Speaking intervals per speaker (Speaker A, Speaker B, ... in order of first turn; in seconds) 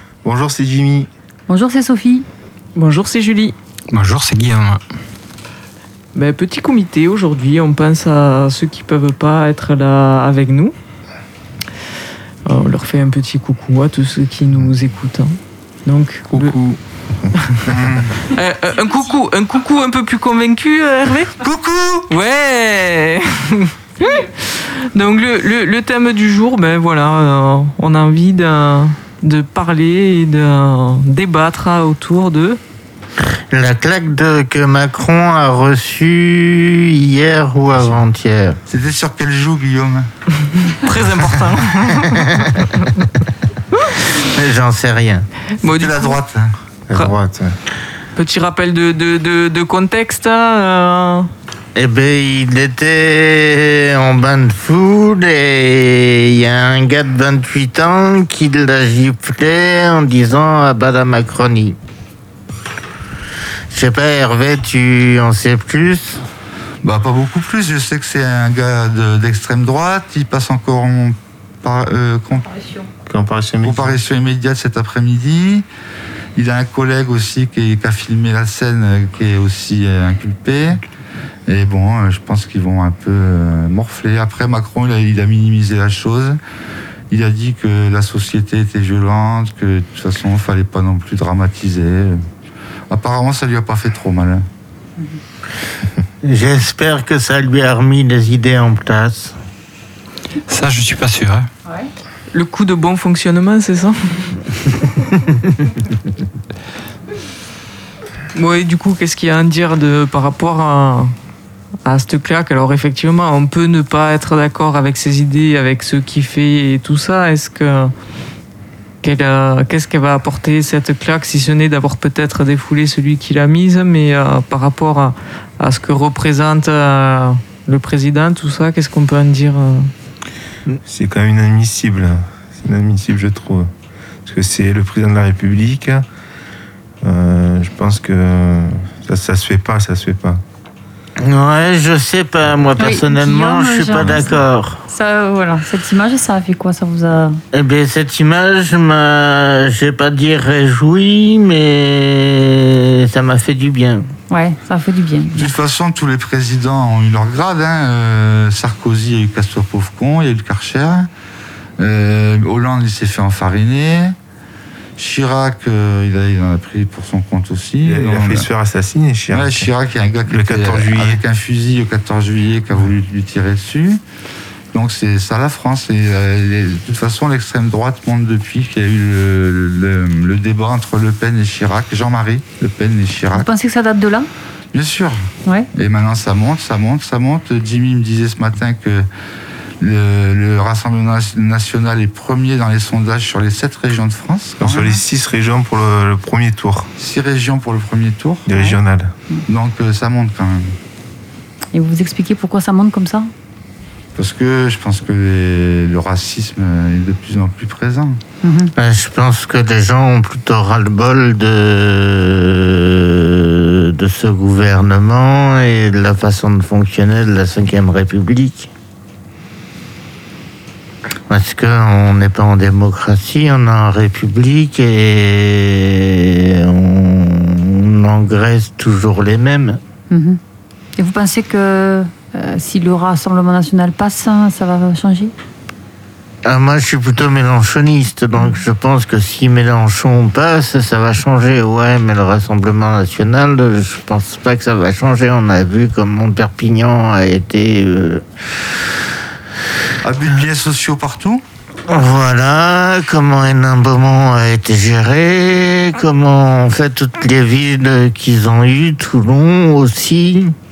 Speaker A: 0.2-1.1, 16.3-17.8, 46.9-47.5, 73.0-74.0, 130.8-133.7, 134.2-136.1, 137.0-140.4, 144.0-144.3, 167.8-169.7, 170.2-171.2, 194.6-196.9, 198.4-199.1
Speaker B: 1.5-2.3, 72.5-72.9, 142.8-144.3, 144.9-147.4, 154.3-155.5, 183.3-184.3, 201.7-203.3, 208.4-208.7, 230.1-230.4, 231.0-235.3
Speaker C: 2.7-3.5, 6.1-10.7, 12.4-16.6, 17.4-17.6, 18.2-21.4, 22.1-32.6, 40.5-43.0, 45.6-46.2, 48.1-51.3, 102.3-104.7, 108.3-111.1, 111.8-117.9, 119.0-129.9
Speaker D: 3.9-4.8, 100.5-101.5
Speaker E: 17.6-18.2, 21.4-22.1, 38.7-40.1, 45.6-46.5, 66.8-72.5, 73.6-75.7, 76.3-80.8, 81.5-86.4, 87.1-92.2, 92.9-94.5, 155.3-161.1, 161.8-164.1, 165.0-168.5, 169.3-174.0, 174.7-183.5, 184.7-189.1, 189.8-195.0, 197.0-198.5, 199.5-200.7, 204.2-208.2, 250.0-251.4
Speaker F: 33.2-38.6, 42.1-42.5, 44.2-45.2, 51.7-61.8, 63.7-66.2, 96.2-99.4, 141.2-144.8, 147.5-154.1, 208.7-218.7, 221.3-229.8, 236.4-248.2, 251.8-260.6